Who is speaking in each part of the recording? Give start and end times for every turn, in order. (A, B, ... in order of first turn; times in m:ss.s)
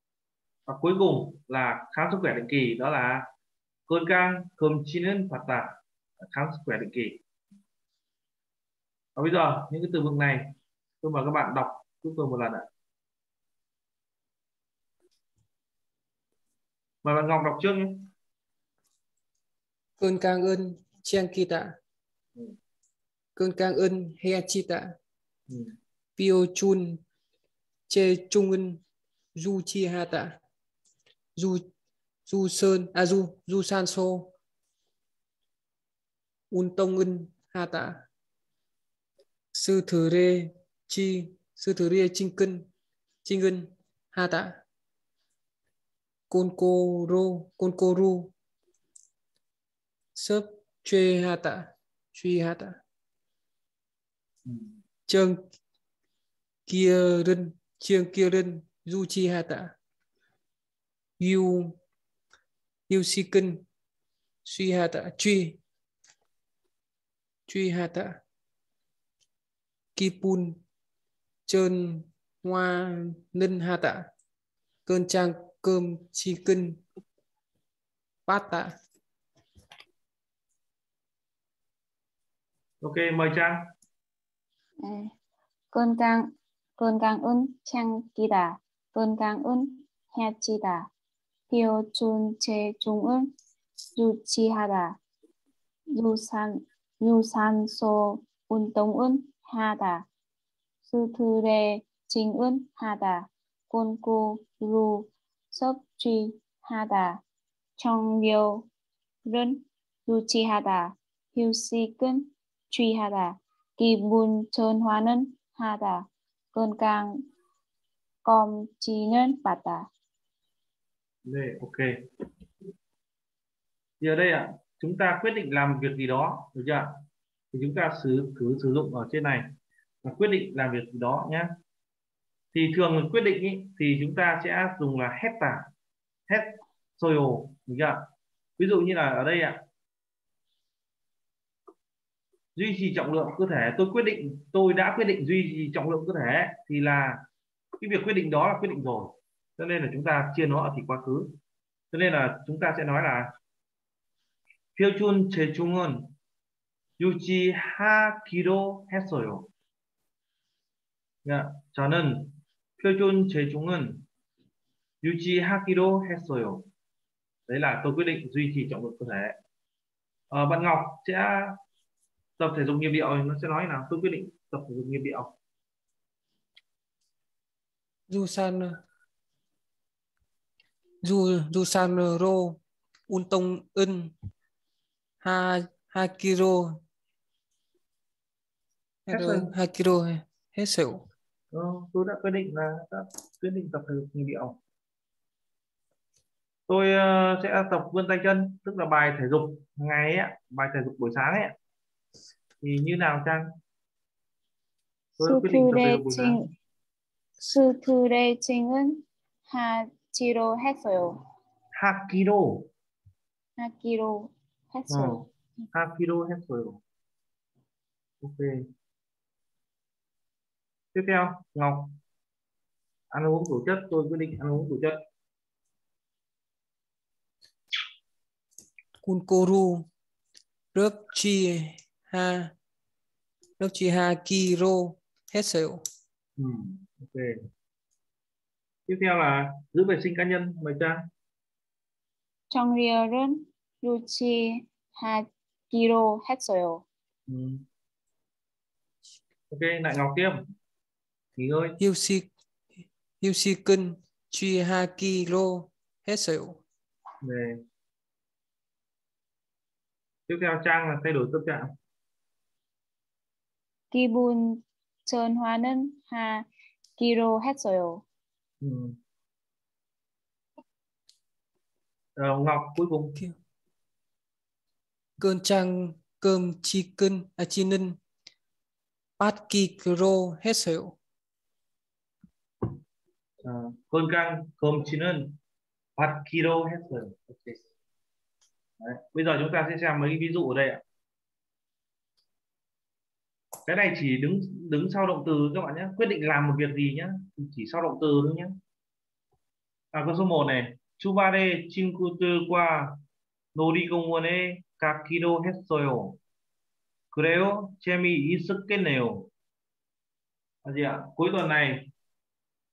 0:00.6-0:03.3 A
0:03.9-0:07.2 A
0:09.2-0:12.6 A
0:17.0-0:18.1 A
0:20.0-0:21.8 B
0:23.4-0:25.0 B
0:25.5-0:25.8 A
0:26.2-0:27.0 B
0:27.9-0:28.8 B
0:29.3-0:30.4 B
0:31.4-0:31.7 B
0:32.2-0:34.3 B
0:36.5-0:38.0 B
0:39.5-0:42.7 B
0:43.2-0:44.6 B
0:46.3-0:48.3 B
0:50.1-0:52.8 B
0:54.4-0:54.8 A
0:55.1-0:55.4 B
0:56.7-0:59.7 B
1:01.2-1:01.8 B
1:02.9-1:03.6 B
1:04.4-1:05.6 B
1:07.5-1:08.2 B
1:10.0-1:10.6 B
1:11.5-1:14.1 B
1:14.8-1:16.8 B
1:18.3-1:18.7 B
1:22.8-1:23.7 A
1:24.8-1:25.1 C
1:25.7-1:30.9 C
1:31.5-1:33.3 C
1:33.9-1:35.0 C
1:35.9-1:40.0 C
1:40.9-1:47.2 C
1:47.8-1:48.7 C
1:49.2-1:57.2 C
1:58.2-1:59.9 C
2:01.2-2:01.8 A
2:04.0-2:06.9 A
2:07.5-2:09.5 A
2:10.0-2:11.5 A
2:12.5-2:15.7 A
2:16.3-2:18.0 A
2:18.6-2:19.6 A
2:22.6-2:27.2 A
2:27.8-2:31.3 A
2:31.9-2:33.3 A
2:34.8-2:36.1 A
2:37.0-2:39.5 A
2:41.2-2:44.0 A
2:45.0-2:46.7 A
2:47.5-2:49.4 A
2:50.3-2:51.6 A
2:52.4-2:55.3 A
2:58.1-2:58.8 B
3:01.0-3:04.1 B
3:05.2-3:06.8 B
3:09.1-3:11.0 B
3:09.1-3:09.5 A
3:11.5-3:14.6 A
3:16.7-3:21.5 A
3:22.6-3:23.5 A
3:25.2-3:26.4 A
3:25.2-3:26.4 C
3:27.4-3:31.2 C
3:31.8-3:32.7 A
3:33.6-3:35.3 C
3:34.9-3:36.8 A
3:38.2-3:38.6 A
3:40.9-3:42.0 A
3:43.1-3:45.0 A
3:49.0-3:49.9 B
3:50.7-3:52.5 B
3:53.6-3:55.8 B
3:56.4-3:57.4 A
3:58.9-4:01.0 A
4:02.5-4:06.8 C
4:07.3-4:07.6 A
4:09.5-4:10.4 A
4:11.4-4:11.8 A
4:11.8-4:12.3 B
4:13.2-4:16.6 B
4:17.2-4:17.6 A
4:20.3-4:21.7 A
4:23.9-4:26.4 C
4:27.0-4:28.0 C
4:28.6-4:29.0 A
4:32.2-4:33.2 A
4:35.2-4:38.0 B
4:39.2-4:41.0 B
4:43.4-4:45.4 A
4:46.0-4:47.6 A
4:48.8-4:50.8 A
4:53.7-4:58.5 A
4:59.9-5:03.0 A
5:03.5-5:06.2 A
5:07.1-5:09.3 A
5:10.6-5:11.9 A